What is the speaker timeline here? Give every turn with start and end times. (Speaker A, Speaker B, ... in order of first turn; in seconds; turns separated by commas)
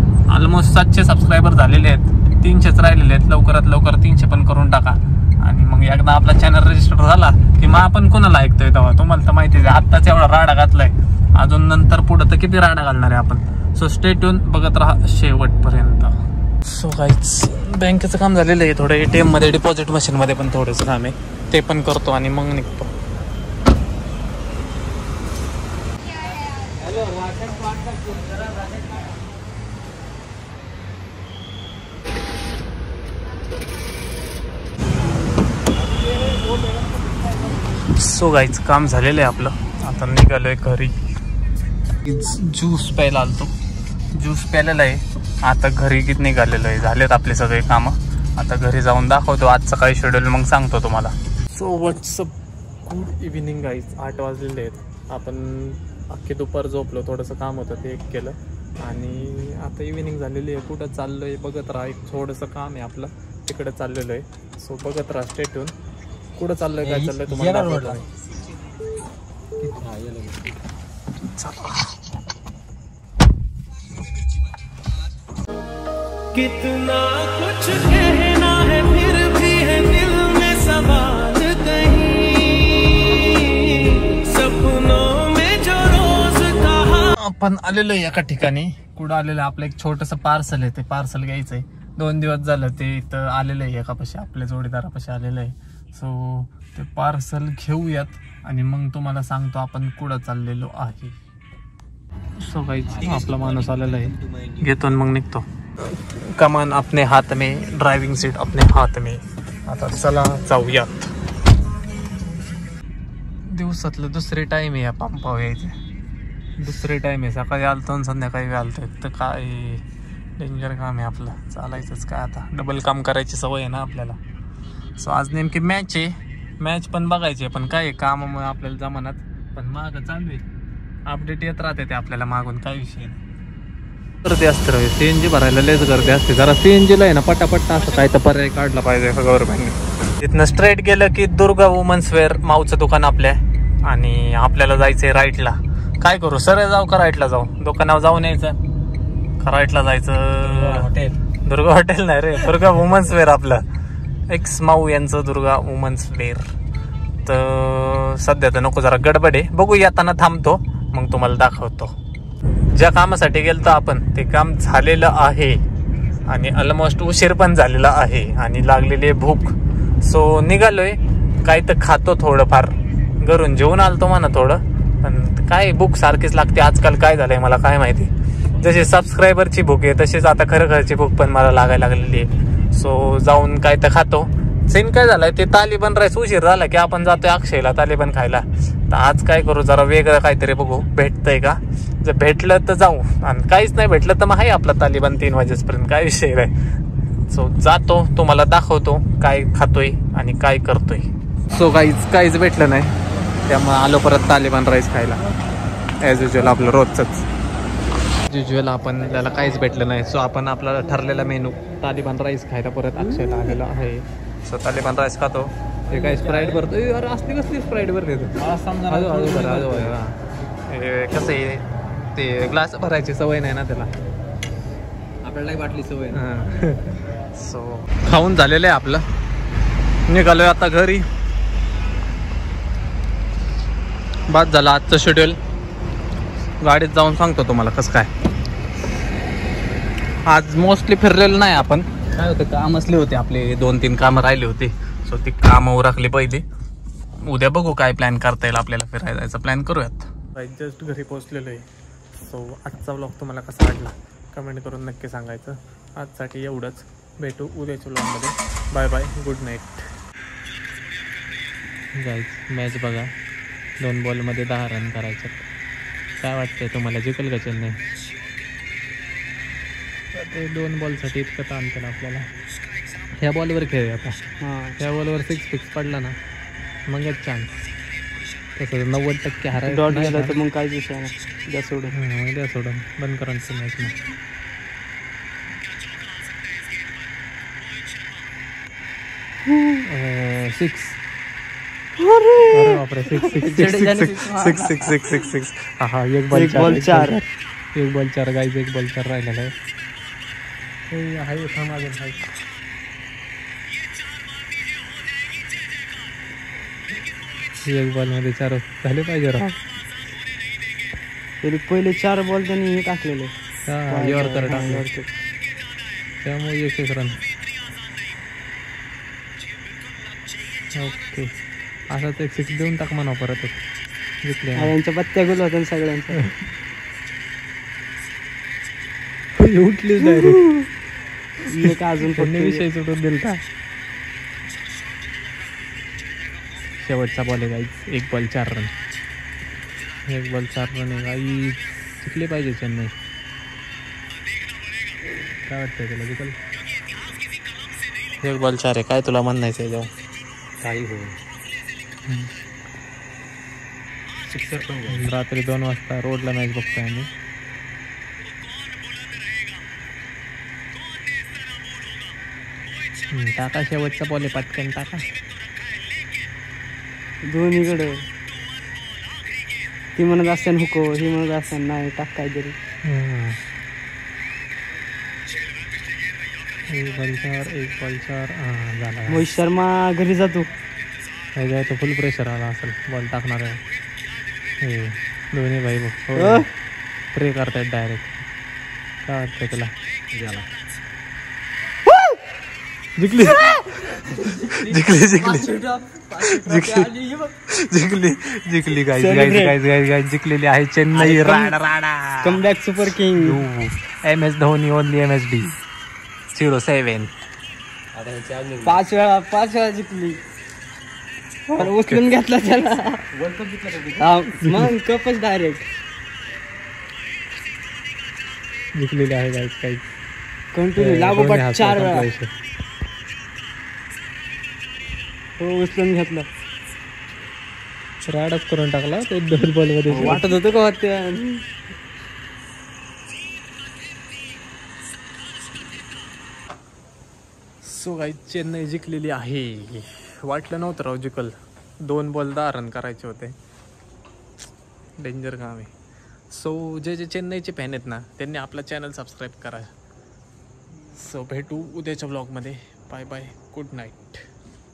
Speaker A: 0.3-22.9, Speaker A: 37.9-40.9, Speaker A: 42.0-43.5, Speaker A: 44.1-65.7, Speaker A: 66.4-68.0, Speaker B: 66.8-68.0, Speaker B: 69.6-70.5, Speaker A: 71.2-71.8, Speaker C: 76.3-87.0, Speaker A: 87.0-101.2, Speaker A: 102.4-105.5, Speaker B: 102.9-104.7, Speaker A: 106.1-111.1, Speaker A: 113.4-115.8, Speaker A: 116.6-119.8, Speaker A: 120.4-124.2, Speaker A: 125.0-130.4, Speaker A: 131.1-133.2, Speaker A: 134.2-148.6, Speaker A: 149.4-150.9, Speaker B: 150.4-151.2, Speaker A: 151.4-153.6, Speaker A: 154.3-156.5, Speaker A: 157.2-161.9, Speaker A: 162.7-165.6, Speaker A: 166.2-196.5, Speaker A: 197.2-202.9, Speaker A: 203.5-205.2, Speaker A: 206.0-207.2, Speaker A: 208.3-218.4, Speaker B: 215.9-216.6, Speaker B: 218.4-220.0, Speaker A: 218.9-220.2, Speaker A: 220.7-223.9, Speaker B: 225.2-226.2, Speaker A: 226.1-229.0, Speaker A: 230.1-231.1, Speaker A: 234.3-235.4, Speaker A: 236.6-238.1, Speaker A: 240.2-246.4, Speaker A: 247.2-251.7, Speaker A: 252.2-259.9, Speaker A: 261.9-263.1, Speaker A: 263.8-265.5, Speaker A: 266.2-267.8, Speaker A: 270.1-272.3, Speaker A: 273.2-274.2, Speaker D: 274.4-274.8, Speaker A: 274.8-276.2, Speaker A: 276.9-277.6, Speaker A: 278.6-280.4, Speaker D: 279.6-281.9, Speaker A: 281.9-284.0, Speaker D: 289.5-289.8, Speaker A: 289.9-291.0, Speaker D: 292.0-295.2, Speaker A: 292.5-297.1, Speaker D: 296.3-297.2, Speaker A: 297.8-299.5, Speaker A: 300.9-302.3, Speaker A: 307.6-309.6, Speaker D: 311.4-313.3, Speaker A: 313.7-314.9, Speaker D: 313.9-315.1, Speaker A: 316.2-317.2, Speaker A: 320.7-321.3, Speaker A: 321.9-323.6, Speaker A: 324.2-324.7, Speaker D: 324.6-326.2, Speaker A: 329.4-330.5, Speaker D: 330.0-330.4, Speaker A: 331.5-333.4, Speaker D: 331.5-332.6, Speaker A: 336.8-338.7, Speaker A: 340.1-343.0, Speaker A: 345.5-346.4, Speaker A: 348.2-349.9, Speaker B: 350.6-351.2, Speaker B: 354.3-355.1, Speaker A: 354.9-357.1, Speaker A: 363.1-365.1, Speaker D: 367.2-368.0, Speaker D: 370.0-372.6, Speaker A: 372.9-373.4, Speaker A: 376.7-379.3, Speaker D: 379.1-380.5, Speaker A: 381.4-383.6, Speaker A: 384.6-386.5, Speaker D: 386.1-386.5, Speaker A: 387.1-388.2, Speaker A: 389.1-389.7, Speaker B: 390.1-390.5, Speaker A: 393.0-395.5, Speaker D: 393.4-397.3, Speaker A: 396.2-396.9, Speaker A: 397.5-402.4, Speaker D: 398.9-399.6, Speaker D: 402.2-403.4, Speaker A: 403.1-405.5, Speaker A: 406.3-407.1, Speaker B: 407.9-408.8, Speaker D: 408.6-410.2, Speaker A: 411.5-412.0, Speaker D: 411.5-413.0, Speaker B: 413.1-414.1, Speaker D: 414.0-415.7, Speaker A: 414.4-414.7, Speaker A: 418.8-419.9, Speaker D: 420.5-422.1, Speaker A: 420.8-422.3, Speaker D: 425.4-426.3, Speaker A: 428.0-430.3, Speaker D: 429.9-431.4, Speaker A: 437.6-443.4, Speaker A: 445.0-445.7, Speaker A: 446.3-449.7, Speaker A: 450.9-454.2